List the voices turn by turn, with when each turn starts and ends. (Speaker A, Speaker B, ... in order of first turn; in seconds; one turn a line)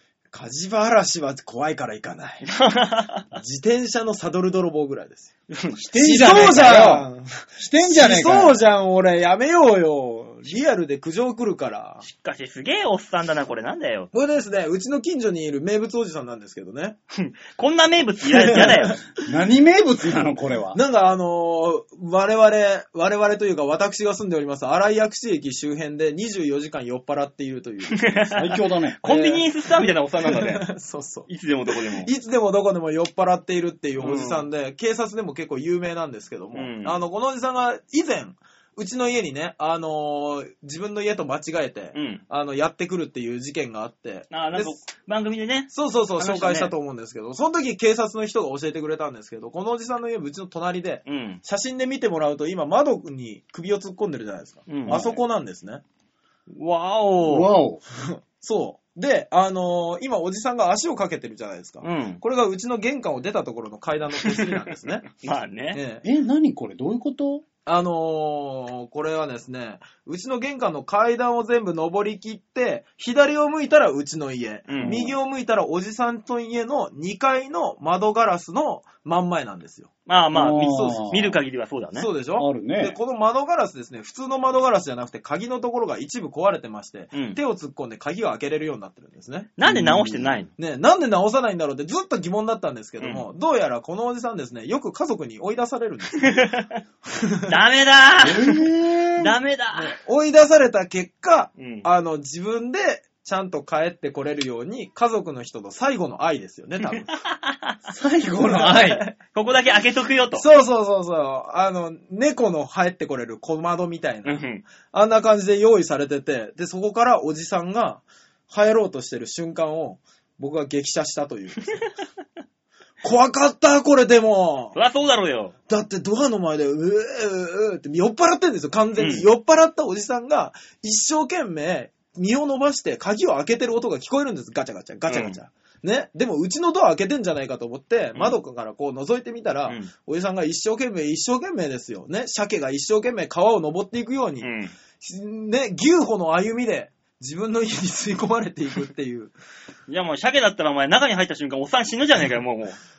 Speaker A: 0.3-2.5
Speaker B: 2.4-3.4
Speaker A: 3.3-5.3
Speaker B: 5.5-5.8
Speaker C: 5.8-7.1
Speaker A: 6.0-12.0
Speaker C: 7.6-8.6
Speaker B: 12.0-14.1
Speaker A: 14.1-17.0
Speaker B: 17.1-19.0
Speaker A: 18.3-19.1
Speaker C: 19.2-20.8
Speaker A: 20.7-28.4
Speaker B: 27.9-30.6
Speaker C: 28.4-29.0
Speaker A: 29.0-44.8
Speaker B: 31.3-32.1
Speaker B: 34.0-34.4
Speaker B: 36.5-37.0
Speaker B: 41.9-42.2
Speaker B: 44.3-46.7
Speaker A: 45.7-55.8
Speaker B: 51.0-51.4
Speaker B: 54.7-55.0
Speaker C: 54.9-55.2
Speaker B: 56.5-57.5
Speaker C: 57.2-57.8
Speaker A: 57.9-65.1
Speaker B: 61.8-62.2
Speaker B: 64.2-64.5
Speaker B: 65.1-65.8
Speaker A: 65.7-66.0
Speaker C: 66.0-67.4
Speaker A: 67.7-79.9
Speaker B: 74.7-75.1
Speaker C: 74.8-75.1
Speaker B: 80.0-82.1
Speaker C: 80.3-81.3
Speaker A: 80.6-81.2
Speaker A: 82.0-89.5
Speaker C: 82.4-83.0
Speaker B: 89.6-90.5
Speaker C: 89.6-90.4
Speaker A: 90.6-97.5
Speaker B: 93.0-93.2
Speaker B: 96.2-96.8
Speaker B: 97.5-98.6
Speaker C: 98.2-99.3
Speaker B: 99.2-99.9
Speaker A: 99.7-107.2
Speaker B: 101.6-101.9
Speaker B: 107.2-107.7
Speaker C: 107.9-109.1
Speaker A: 108.4-109.1
Speaker B: 109.3-110.4
Speaker A: 110.3-121.9
Speaker B: 114.2-114.6
Speaker A: 123.0-124.8
Speaker B: 124.7-125.5
Speaker A: 125.7-149.3
Speaker B: 129.0-129.2
Speaker B: 135.1-135.4
Speaker B: 144.4-144.7
Speaker B: 149.9-152.8